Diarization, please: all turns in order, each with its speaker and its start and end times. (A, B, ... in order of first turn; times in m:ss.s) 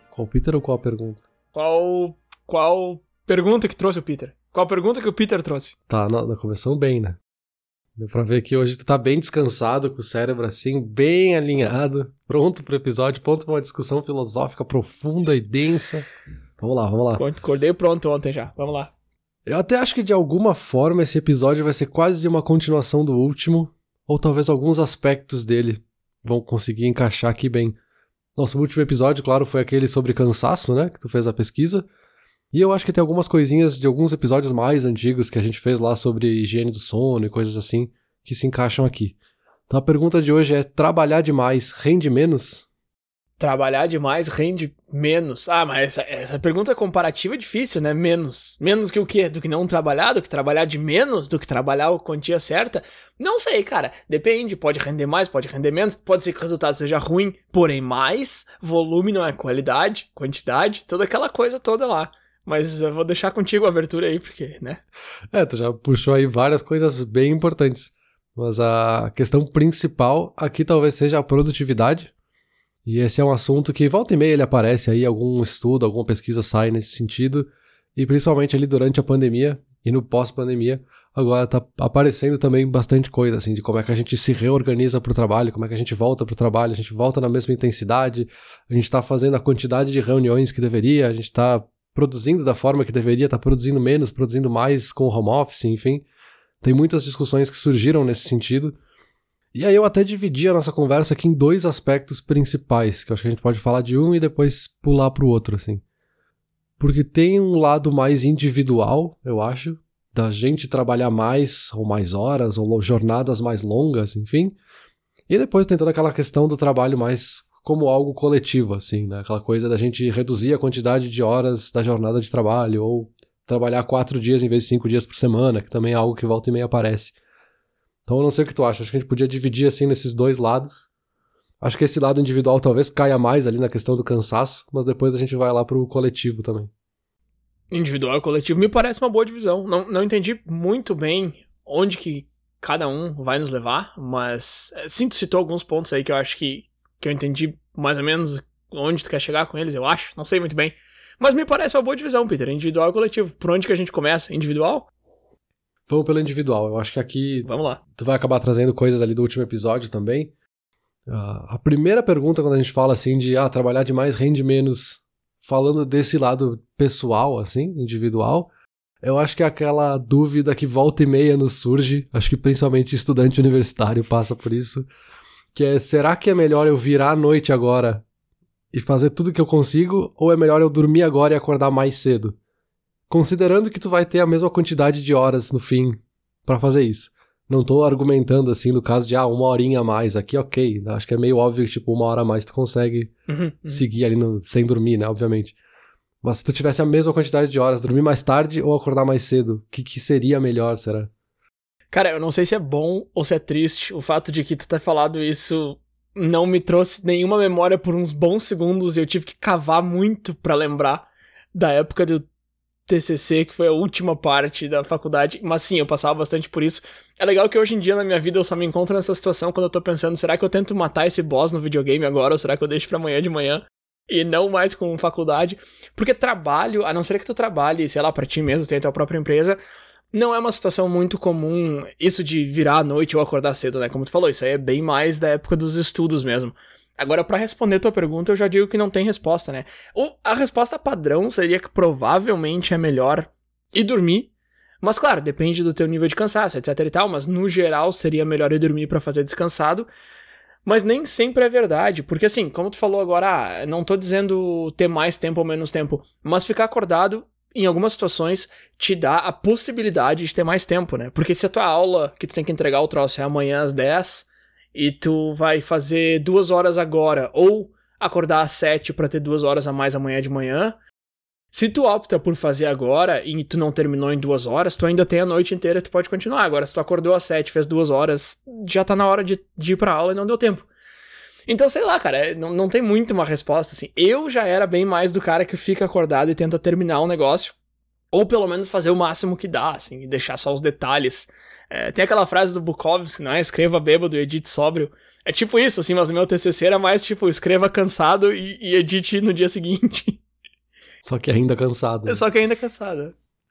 0:00.1-0:01.2 A
0:01.5-0:05.8 B
0:05.9-0:07.2 A
0:08.0-0:16.1 A
0:16.6-0:17.2 A
0:17.2-0:18.9 B
0:19.5-0:27.8 A
0:28.4-0:31.9 A
0:32.5-0:39.2 A
0:39.7-0:42.7 A
0:43.4-1:04.8 B
1:05.3-1:12.1 A
1:12.9-1:36.0 A
1:36.6-1:38.8 A
1:39.5-1:45.8 A
1:46.8-1:54.6 A
1:55.3-2:07.2 A
2:08.1-2:10.9 A
2:11.6-2:16.7 A
2:17.7-2:34.9 B
2:35.9-2:40.3 A
2:37.5-2:37.8 B
2:41.1-2:48.5 A
2:49.0-2:54.9 A
2:55.5-2:58.0 A
2:58.7-3:02.4 A
3:03.1-3:13.1 A
3:13.3-3:13.8 B
3:13.7-3:15.6 A
3:16.2-3:21.1 A
3:21.9-3:32.3 B
3:32.9-3:49.6 B
3:50.1-4:04.3 B
4:04.8-4:09.9 B
4:10.7-4:30.8 B
4:31.5-4:40.7 B
4:41.5-4:47.6 B
4:48.1-5:00.2 B
5:01.0-5:02.2 A
5:02.1-5:03.1 B